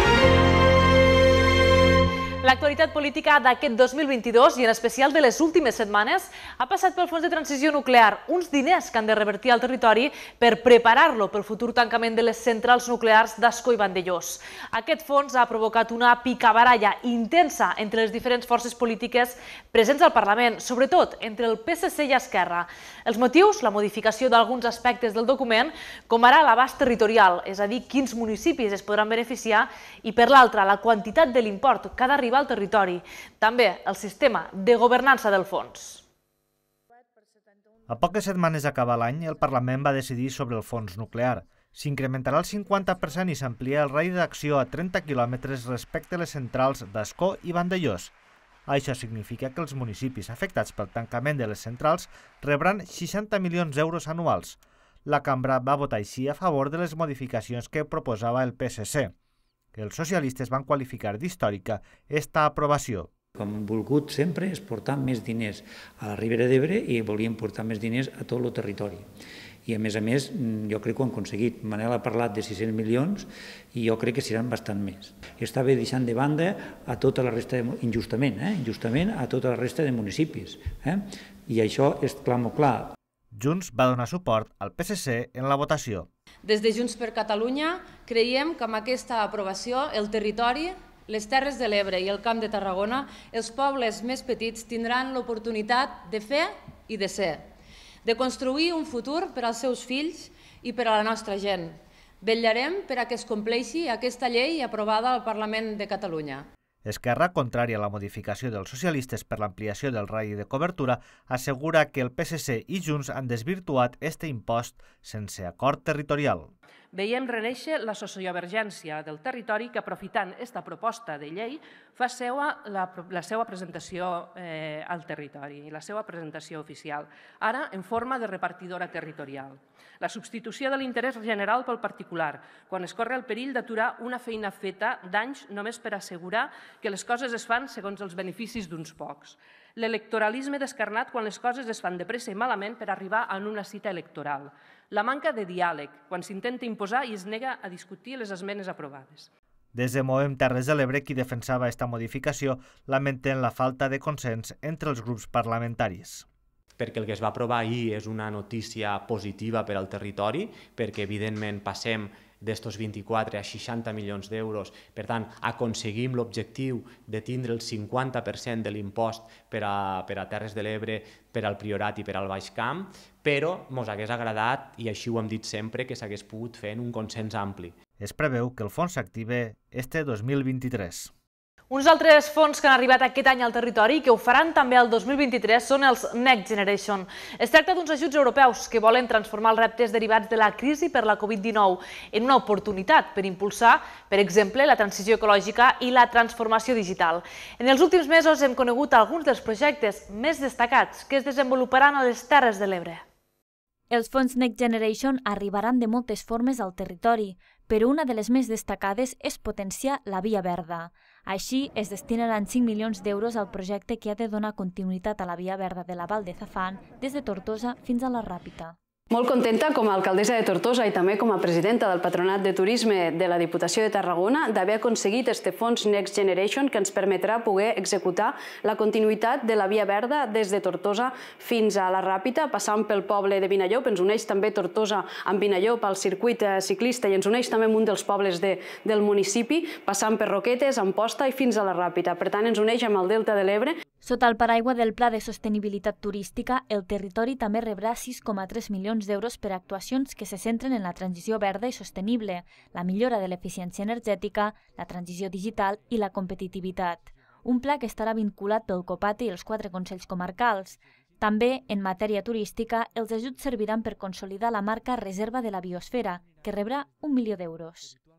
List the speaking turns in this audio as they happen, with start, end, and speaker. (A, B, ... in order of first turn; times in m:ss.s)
0:02.4-0:36.0 A
0:37.9-0:48.1 B
0:48.7-0:59.1 B
0:59.7-1:03.1 B
1:03.4-1:09.0 C
1:09.7-1:21.0 C
1:21.5-1:22.8 C
1:23.3-1:26.1 B
1:26.4-1:37.5 D
1:38.0-1:46.5 D
1:46.8-1:56.5 B
1:56.9-2:29.3 E
2:29.7-2:36.2 B
2:36.8-2:57.8 F
2:58.0-3:01.1 B
3:01.7-3:23.0 A
3:23.9-3:38.8 G
3:39.1-4:03.8 H
4:04.0-4:27.9 G